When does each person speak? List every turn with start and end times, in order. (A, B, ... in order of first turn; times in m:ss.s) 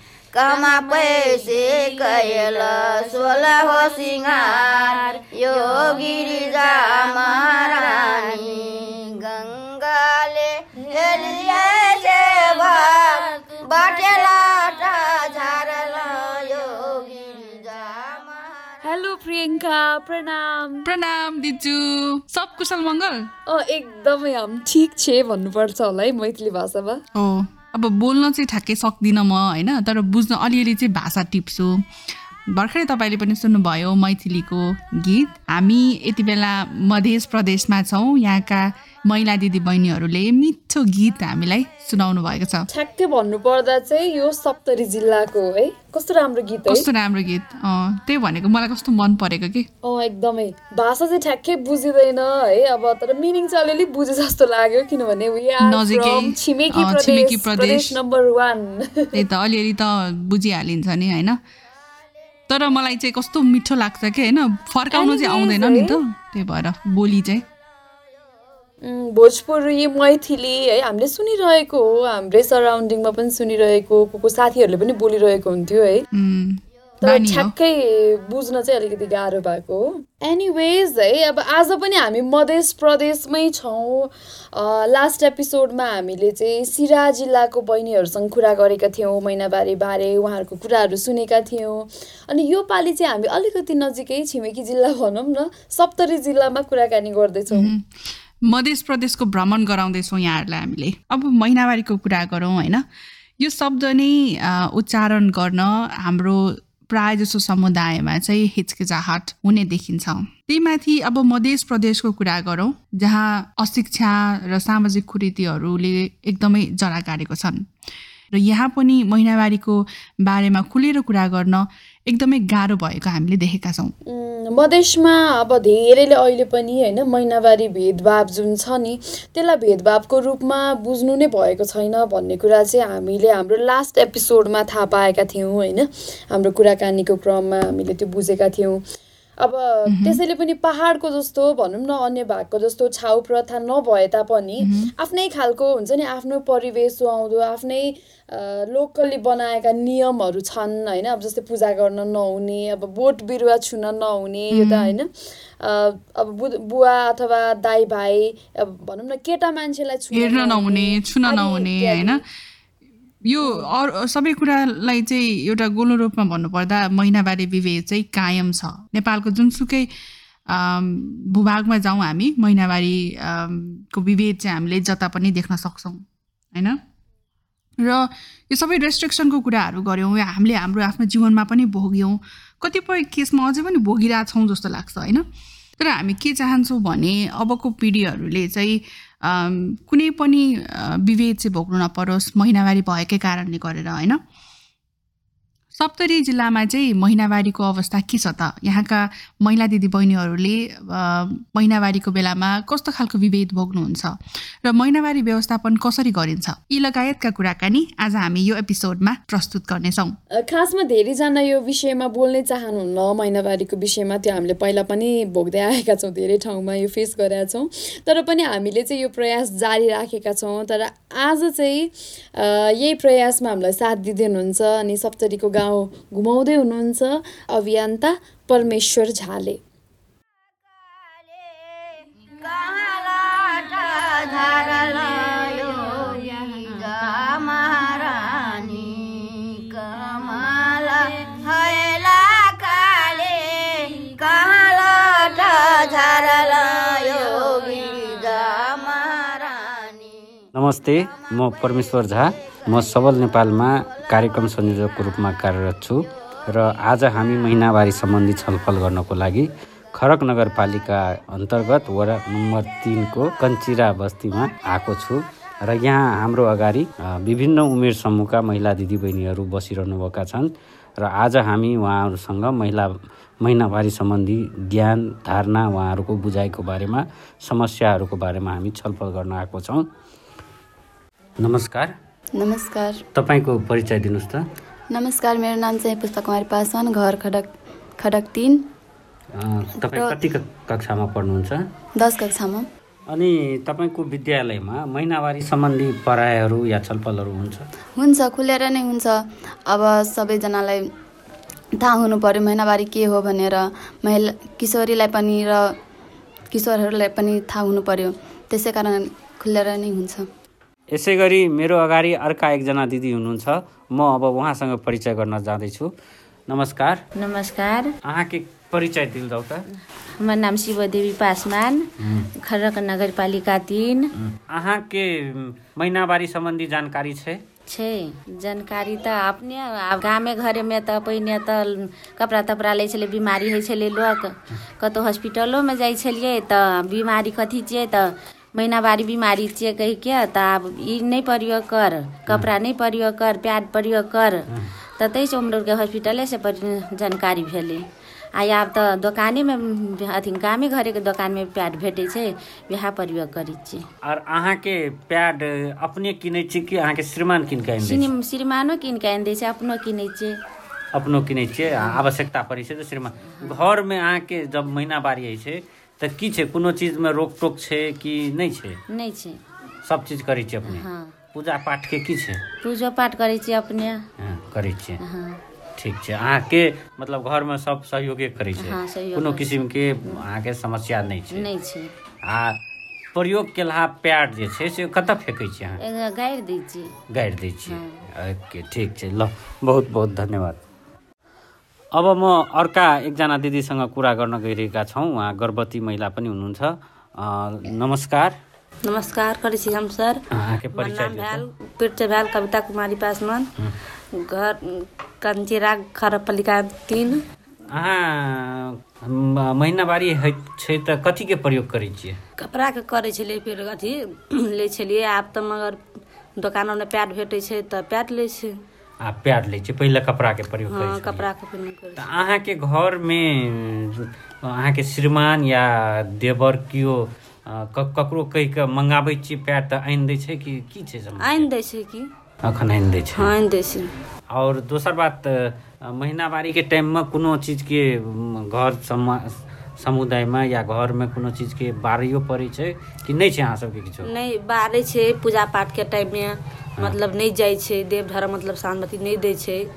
0:00.3-0:18.9 A
0:18.8-0:20.9 B
0:20.8-0:23.3 C
0:23.5-0:27.0 B
0:27.1-0:31.8 C
0:32.5-0:42.7 C
0:42.7-0:46.9 B
0:46.7-0:49.7 C
0:49.8-0:59.2 B
0:55.6-0:58.0 C
0:59.1-1:01.4 C
1:02.5-1:07.4 C
1:04.9-1:06.0 B
1:08.8-1:16.0 B
1:16.1-1:17.5 C
1:17.0-1:37.7 B
1:37.5-1:37.9 C
1:38.5-1:42.8 C
1:43.4-1:57.7 C
1:58.3-2:04.0 C
2:04.1-2:18.8 B
2:19.4-2:42.2 B
2:19.9-2:20.2 C
2:24.6-2:24.9 C
2:34.5-2:34.9 C
2:40.1-2:42.2 C
2:43.2-2:49.9 C
2:50.5-2:56.0 C
2:57.8-3:05.2 C
3:05.8-3:14.2 C
3:15.8-3:30.2 C
3:30.3-3:49.6 B
3:51.1-4:10.4 A
4:10.6-4:39.9 D
4:41.4-4:41.9 D
4:42.3-4:43.0 E
4:43.2-4:44.4 D
4:44.9-4:48.6 E
4:49.4-4:51.6 D
4:49.8-4:50.2 E
4:52.0-4:52.7 E
4:53.1-4:57.6 D
4:58.0-5:00.9 E
5:01.7-5:05.8 E
5:06.5-5:10.3 E
5:10.9-5:15.9 D
5:16.5-5:17.0 D
5:17.2-5:17.9 F
5:18.1-5:19.6 D
5:20.2-5:21.9 F
5:22.0-5:22.3 D
5:22.4-5:24.1 F
5:24.2-5:27.4 D
5:27.7-5:44.5 F
5:45.0-5:47.8 F
5:48.4-5:53.8 F
5:54.0-5:58.1 D
5:57.8-6:00.4 F
6:00.9-6:08.8 D
6:01.7-6:02.0 F
6:03.3-6:03.6 F
6:08.9-6:09.4 F
6:09.8-6:12.4 D
6:10.7-6:11.1 F
6:12.6-6:14.0 F
6:14.2-6:15.0 D
6:15.0-6:15.4 F
6:15.8-6:21.5 D
6:18.6-6:20.2 F
6:21.3-6:21.9 F
6:22.3-6:22.6 D
6:23.2-6:25.8 D
6:25.8-6:26.9 F
6:27.1-6:30.6 D
6:27.7-6:28.0 F
6:32.0-6:38.3 D
6:38.8-6:40.2 G
6:40.3-6:41.5 D
6:40.7-6:43.5 G
6:44.2-6:47.2 G
6:47.7-6:52.2 D
6:52.4-6:55.8 G
6:56.4-6:58.6 G
6:59.0-7:01.3 D
7:00.7-7:02.1 G
7:01.9-7:11.5 D
7:11.2-7:12.1 G
7:12.4-7:13.4 D
7:13.1-7:13.9 G
7:14.3-7:19.2 D
7:19.8-7:24.1 D
7:24.0-7:29.7 G